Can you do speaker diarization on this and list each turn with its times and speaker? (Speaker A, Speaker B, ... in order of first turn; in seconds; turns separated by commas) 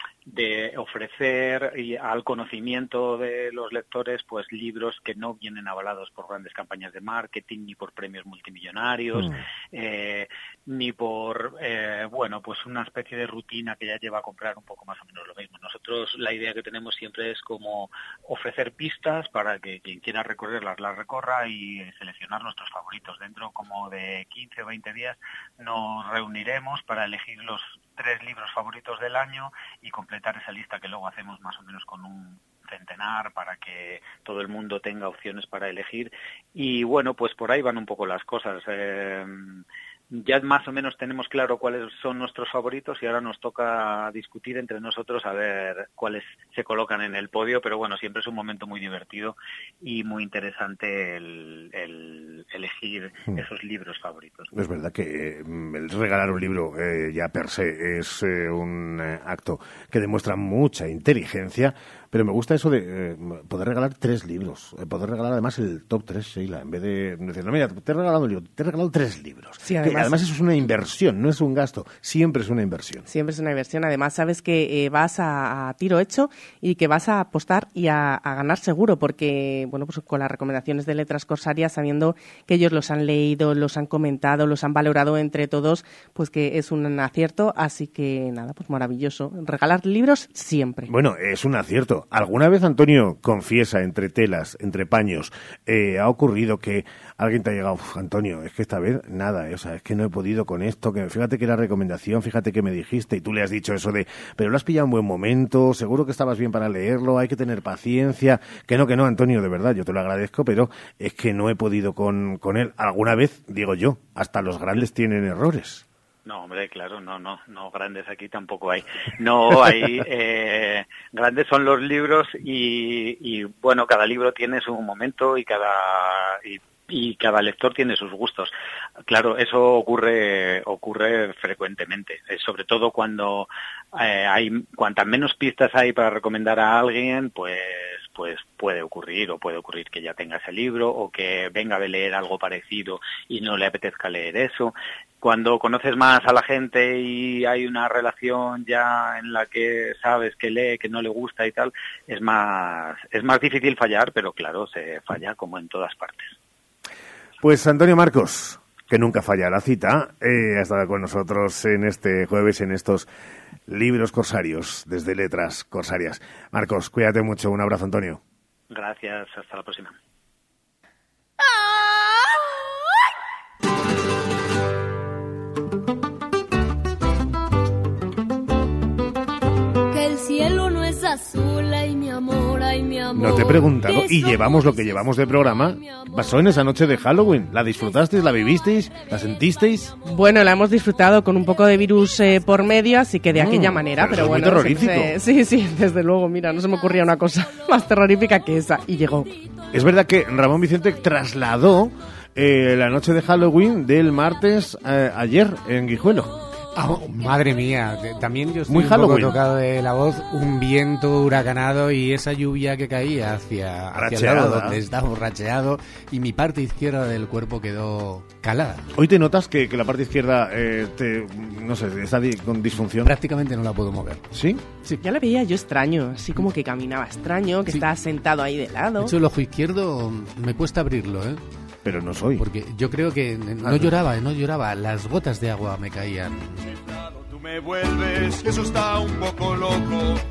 Speaker A: 0.3-54.5, Speaker B: 54.5-73.0, Speaker C: 69.6-70.2, Speaker C: 73.1-90.9, Speaker B: 90.9-115.8, Speaker A: 116.2-128.5, Speaker A: 129.1-156.3, Speaker B: 157.4-163.1, Speaker B: 163.7-168.2, Speaker A: 168.7-169.9, Speaker D: 171.4-172.7, Speaker D: 179.9-186.5, Speaker B: 183.1-189.9, Speaker D: 187.8-188.6, Speaker C: 190.0-199.3, Speaker B: 193.3-195.2, Speaker B: 199.7-206.3, Speaker E: 206.7-218.9, Speaker B: 208.7-209.4, Speaker B: 213.9-214.8, Speaker B: 218.9-223.1, Speaker E: 223.0-224.2, Speaker B: 224.3-224.6, Speaker C: 225.0-229.1, Speaker E: 229.0-231.4, Speaker B: 231.8-232.4, Speaker E: 232.4-236.6, Speaker B: 233.6-233.9, Speaker F: 237.8-239.8